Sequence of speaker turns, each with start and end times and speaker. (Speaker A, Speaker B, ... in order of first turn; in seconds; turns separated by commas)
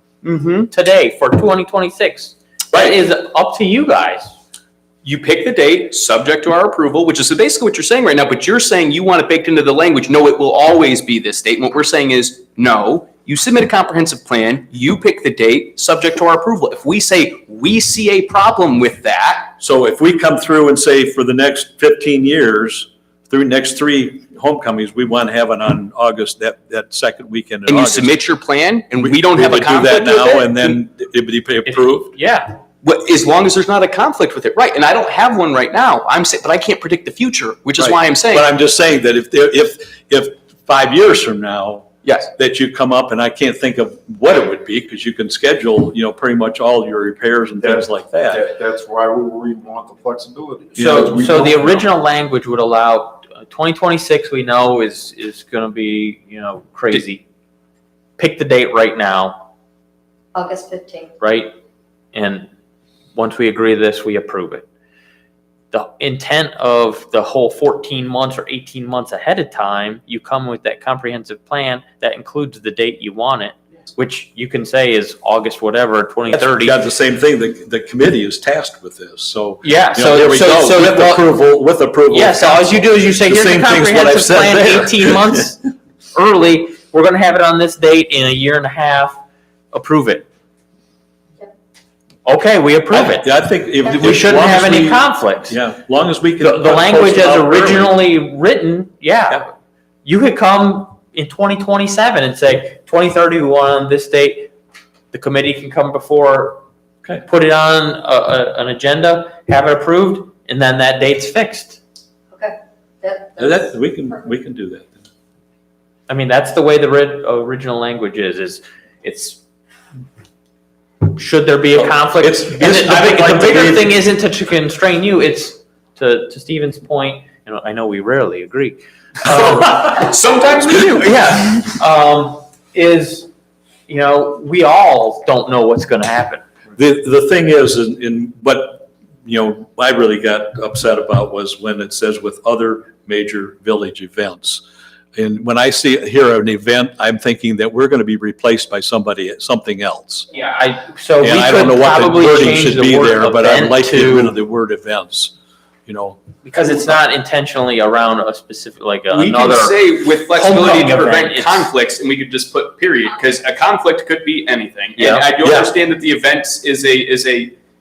Speaker A: 0.2-0.7, Speaker B: 0.7-4.3, Speaker A: 5.0-19.5, Speaker C: 19.6-28.2, Speaker A: 27.7-30.8, Speaker C: 29.0-32.1, Speaker B: 31.7-32.6, Speaker A: 32.8-38.5, Speaker C: 37.8-48.4, Speaker A: 42.0-42.3, Speaker D: 47.6-51.8, Speaker C: 50.8-51.8, Speaker B: 50.8-57.2, Speaker B: 58.2-59.4, Speaker E: 60.3-61.1, Speaker B: 61.2-61.5, Speaker B: 62.1-62.5, Speaker B: 63.1-64.7, Speaker B: 65.7-76.8, Speaker C: 76.3-85.5, Speaker B: 79.6-81.3, Speaker B: 82.1-89.2, Speaker B: 89.7-90.3, Speaker B: 92.2-93.3, Speaker C: 92.9-98.0, Speaker E: 93.8-94.2, Speaker B: 94.0-95.6, Speaker B: 96.4-99.5, Speaker B: 100.0-104.5, Speaker B: 105.1-106.6, Speaker B: 107.2-111.8, Speaker E: 112.3-114.1, Speaker C: 113.4-115.0, Speaker B: 116.1-119.4, Speaker B: 121.0-130.1, Speaker C: 121.8-124.0, Speaker A: 129.2-131.4, Speaker B: 130.9-133.3, Speaker B: 133.9-136.4, Speaker C: 136.8-144.6, Speaker C: 145.1-150.3, Speaker A: 150.3-150.6, Speaker B: 150.4-154.4, Speaker C: 151.2-155.3, Speaker C: 155.8-156.2, Speaker B: 156.4-161.7, Speaker A: 159.1-167.5, Speaker B: 165.0-165.3, Speaker C: 165.4-165.7